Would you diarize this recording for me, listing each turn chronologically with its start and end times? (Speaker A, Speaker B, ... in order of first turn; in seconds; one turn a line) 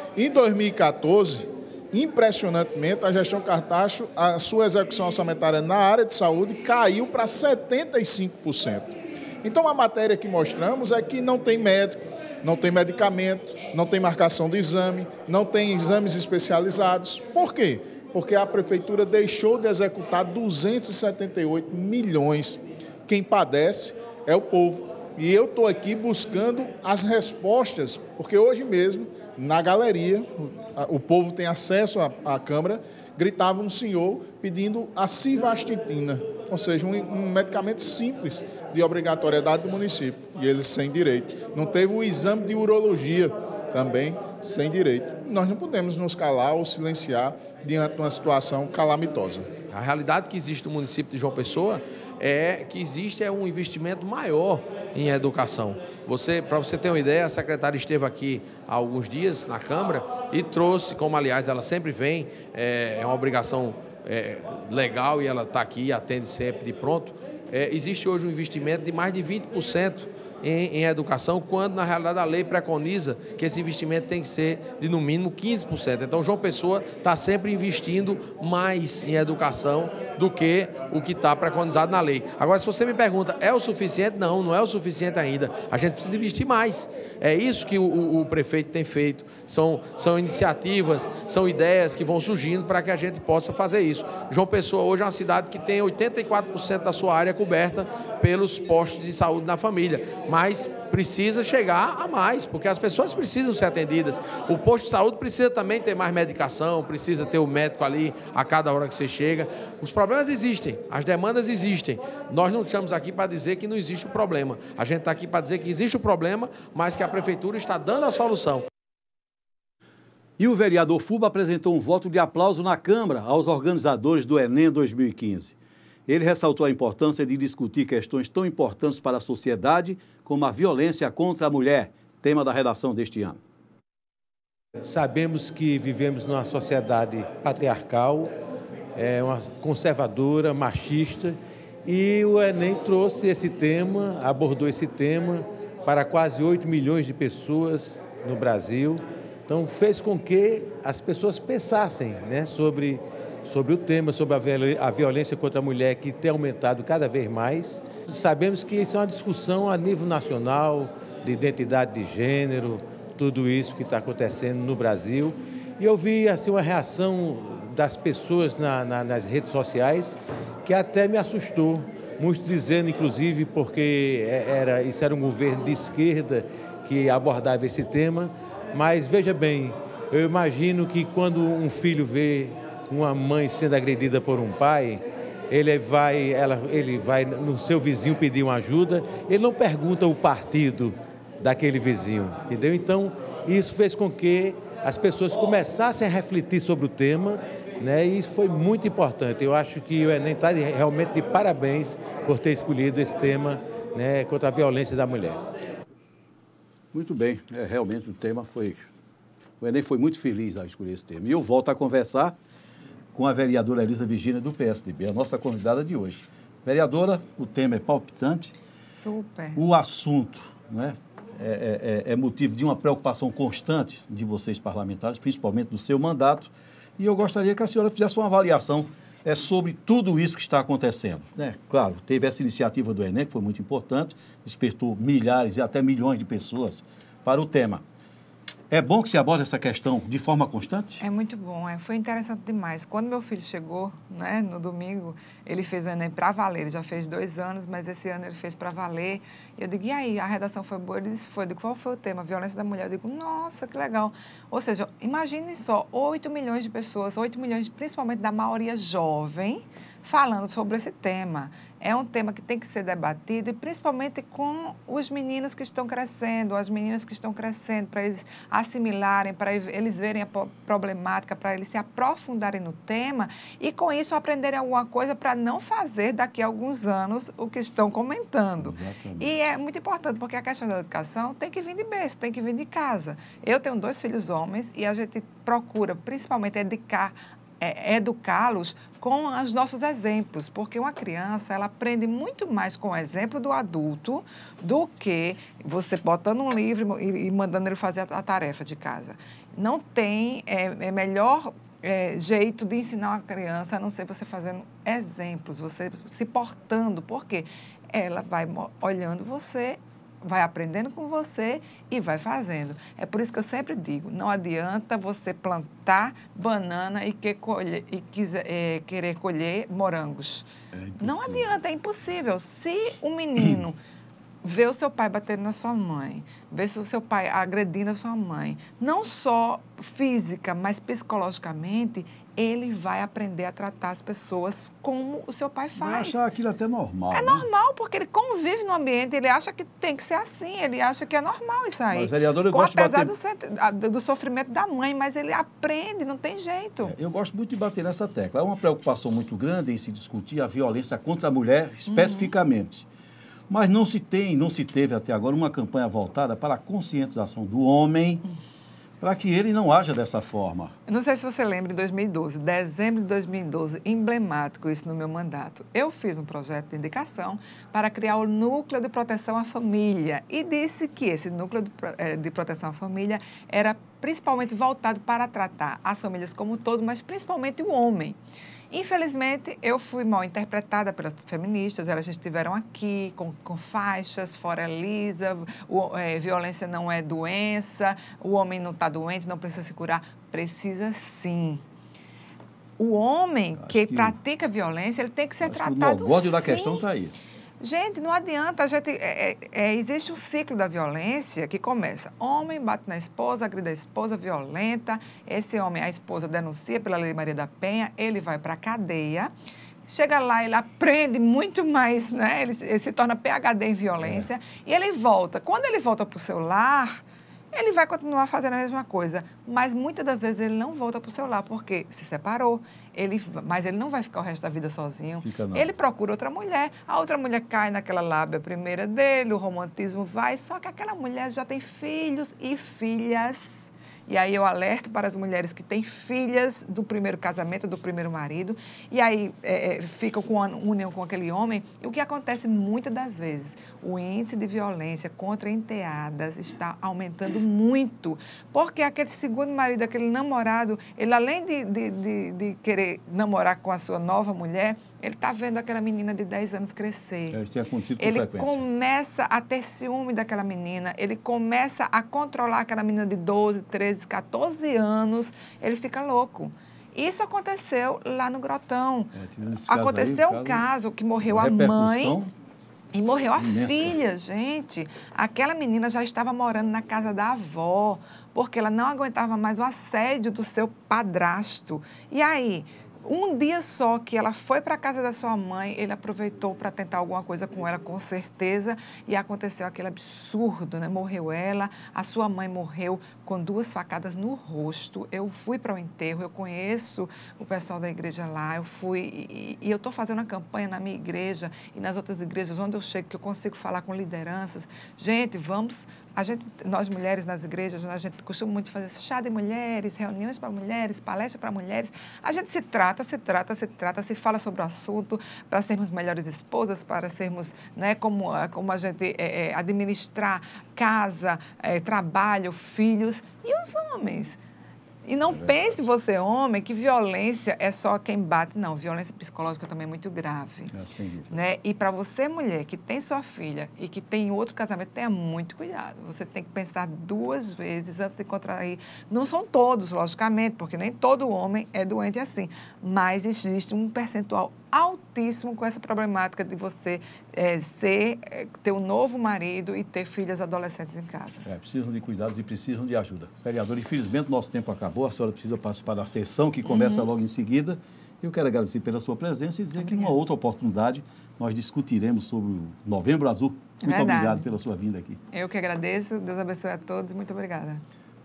Speaker A: 0.1-49.5
Speaker B: 49.7-118.7
Speaker C: 120.4-125.5
Speaker C: 126.1-133.4
Speaker D: 134.9-138.3
Speaker D: 138.9-205.4
Speaker C: 206.9-208.8
Speaker C: 209.6-212.4
Speaker C: 213.1-218.5
Speaker E: 218.9-219.6
Speaker C: 219.6-237.8
Speaker C: 238.7-241.0
Speaker E: 241.0-320.4
Speaker C: 278.6-279.4
Speaker C: 320.7-321.5
Speaker E: 321.0-323.8
Speaker E: 324.4-336.2
Speaker C: 335.8-337.4
Speaker E: 337.1-346.9
Speaker C: 341.9-343.1
Speaker C: 346.8-352.9
Speaker E: 351.9-352.3
Speaker C: 353.5-358.2
Speaker C: 359.0-360.7
Speaker E: 360.9-378.2
Speaker E: 378.7-391.6
Speaker E: 392.8-396.9
Speaker C: 393.6-394.2
Speaker C: 395.4-397.1
Speaker E: 397.6-409.3
Speaker E: 409.9-417.0
Speaker C: 414.0-414.3
Speaker E: 417.5-457.4
Speaker C: 425.2-425.7
Speaker C: 457.3-458.6
Speaker E: 458.0-469.1
Speaker C: 469.1-470.6
Speaker E: 469.6-472.2
Speaker C: 471.2-472.3
Speaker E: 472.9-524.4
Speaker C: 473.4-474.0
Speaker E: 525.0-530.7
Speaker C: 525.3-525.8
Speaker C: 530.7-531.4
Speaker E: 531.3-551.5
Speaker C: 551.5-565.2
Speaker E: 556.6-557.1
Speaker E: 559.8-560.2
Speaker E: 563.8-564.5
Speaker E: 565.3-567.8